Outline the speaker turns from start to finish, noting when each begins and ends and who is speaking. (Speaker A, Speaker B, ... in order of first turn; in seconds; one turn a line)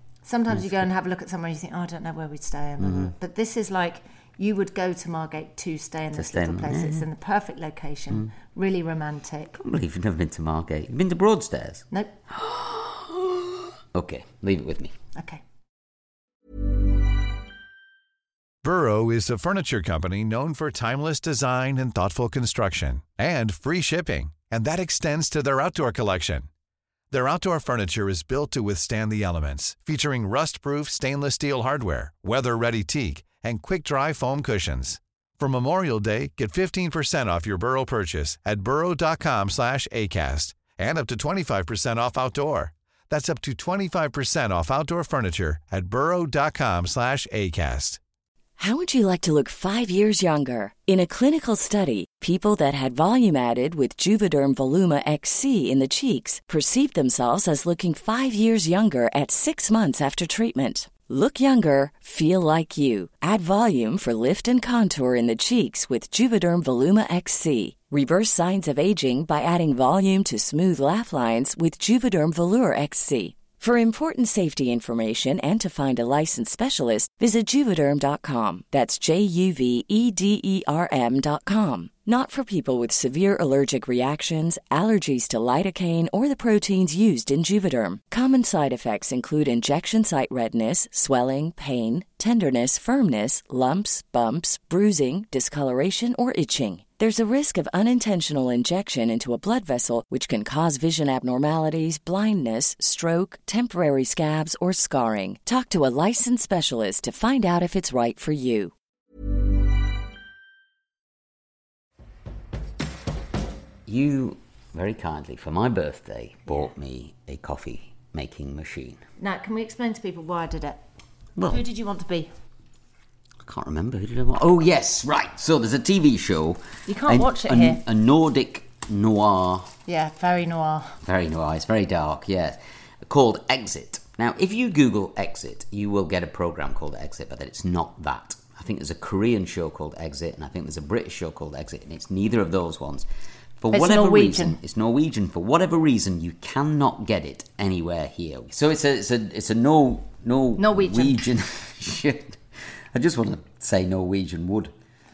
Speaker A: 0.2-9.6
Speaker B: 0.5-0.8
Speaker B: 2.8-3.1
Speaker B: 6.1-7.0
Speaker B: 9.5-14.9
Speaker A: 15.1-15.4
Speaker C: 18.6-26.5
Speaker C: 27.1-48.0
Speaker D: 48.6-108.7
Speaker B: 113.8-119.0
Speaker A: 119.2-120.8
Speaker B: 121.4-121.6
Speaker A: 121.5-122.3
Speaker B: 123.4-129.7
Speaker A: 126.9-127.8
Speaker A: 129.9-131.0
Speaker B: 131.0-143.1
Speaker B: 143.6-152.4
Speaker A: 143.7-144.6
Speaker A: 150.6-151.3
Speaker B: 152.9-154.7